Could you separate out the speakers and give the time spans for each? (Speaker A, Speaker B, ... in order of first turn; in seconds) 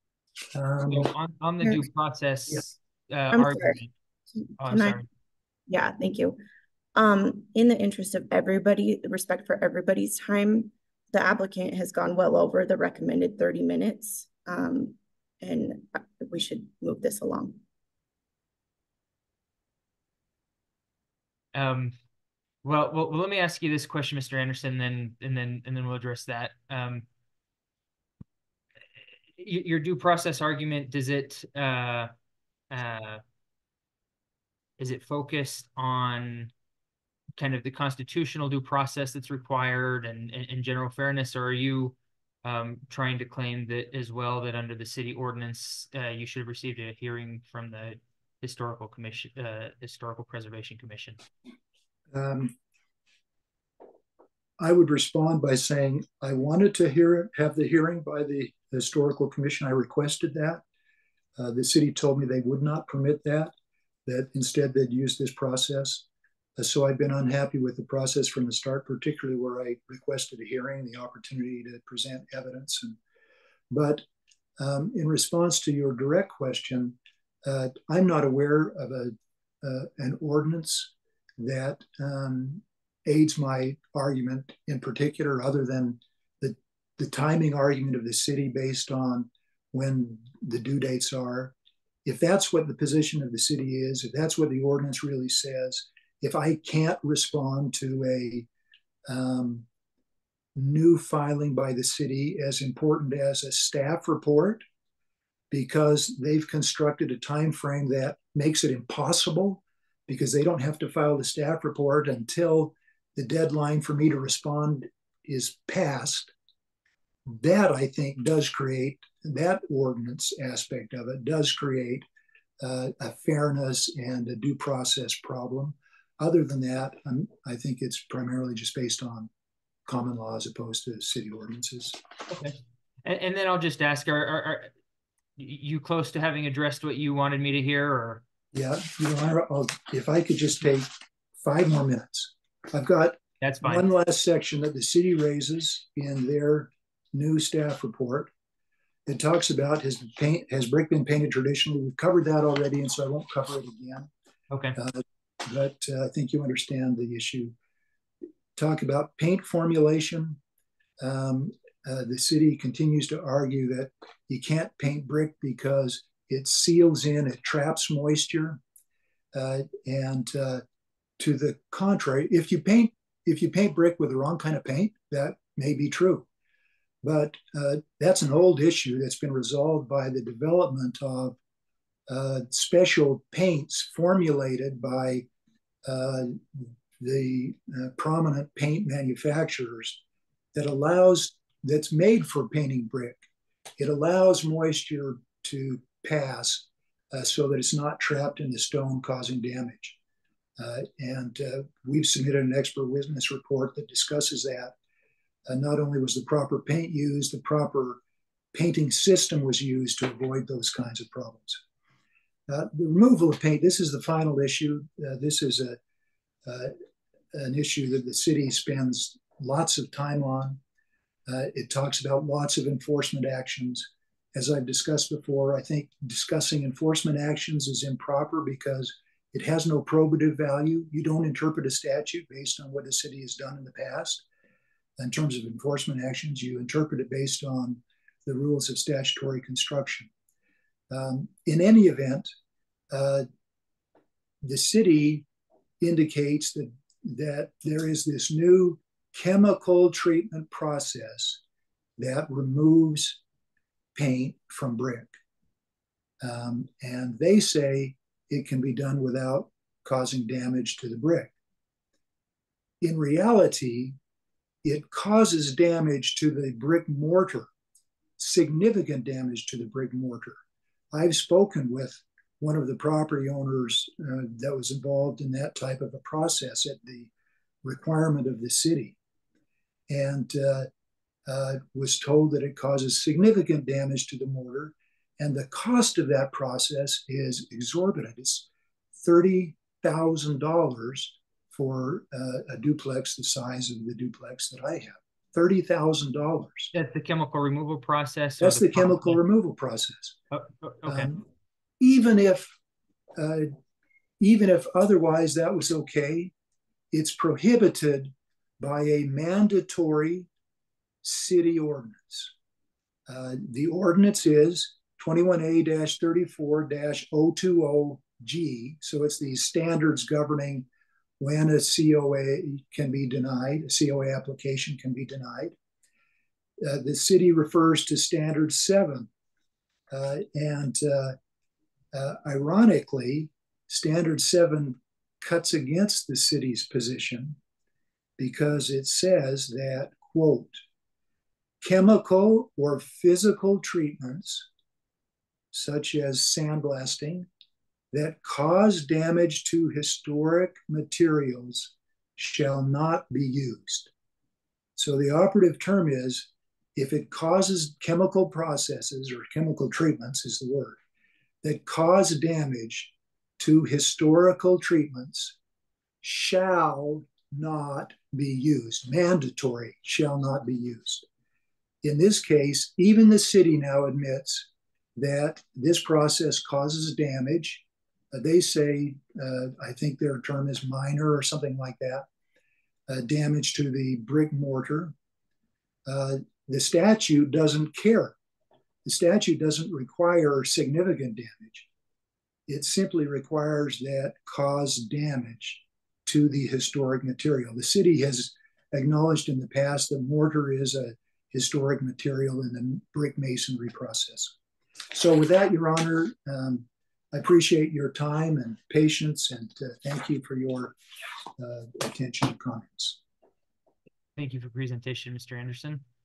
Speaker A: 0.5-1.1, 52.1-52.5, 54.6-60.6, 61.4-63.5, 64.0-66.0, 66.6-73.0, 73.7-74.0, 74.6-91.5, 92.0-98.5, 99.1-99.7, 100.5-104.6, 105.5-116.3, 117.3-122.0, 122.6-129.3, 129.8-132.0, 138.5-148.3, 149.1-154.1, 154.8-157.5, 158.6-160.4, 161.0-168.6, 169.3-170.6, 171.2-176.2, 177.0-181.4, 182.1-185.3, 185.8-190.0, 190.5-193.2, 193.8-200.0, 200.6-204.7, 205.5-208.0, 208.5-211.6, 212.5-215.8, 216.4-216.7, 217.3-220.6, 221.3-234.2, 235.0-240.1, 240.9-242.3, 242.9-243.2, 244.4-245.3, 245.8-251.4, 252.0-253.2, 253.9-255.2, 256.2-261.3, 262.8-264.0, 264.6-267.5, 268.2-270.4, 270.9-277.1, 277.6-279.0, 279.9-280.7, 281.3-288.5, 289.0-296.7, 298.4-300.2, 300.9-301.2, 301.8-302.5, 303.1-303.5, 304.2-306.3, 306.9-310.3, 311.0-312.3, 313.1-320.7, 321.2-325.5, 326.6-329.1, 329.9-331.1, 331.9-337.4, 338.2-340.6, 341.6-344.5, 345.5-347.3, 347.9-353.9, 354.8-360.8, 361.4-365.4, 366.0-371.1, 371.8-382.1, 382.9-384.9, 385.9-388.2, 388.8-391.7, 392.5-404.3, 404.9-410.8, 411.4-413.0
Speaker B: 0.9-3.9, 4.6-5.1, 21.5-21.9, 22.6-27.0, 29.4-32.1, 32.7-33.2, 34.8-36.5, 37.4-51.2, 132.3-134.7, 135.4-138.2, 143.4-143.9, 154.5-154.8, 296.7-299.2, 300.3-301.1, 414.2-415.8
Speaker C: 3.3-3.8, 4.6-5.0, 5.7-6.4, 7.0-17.6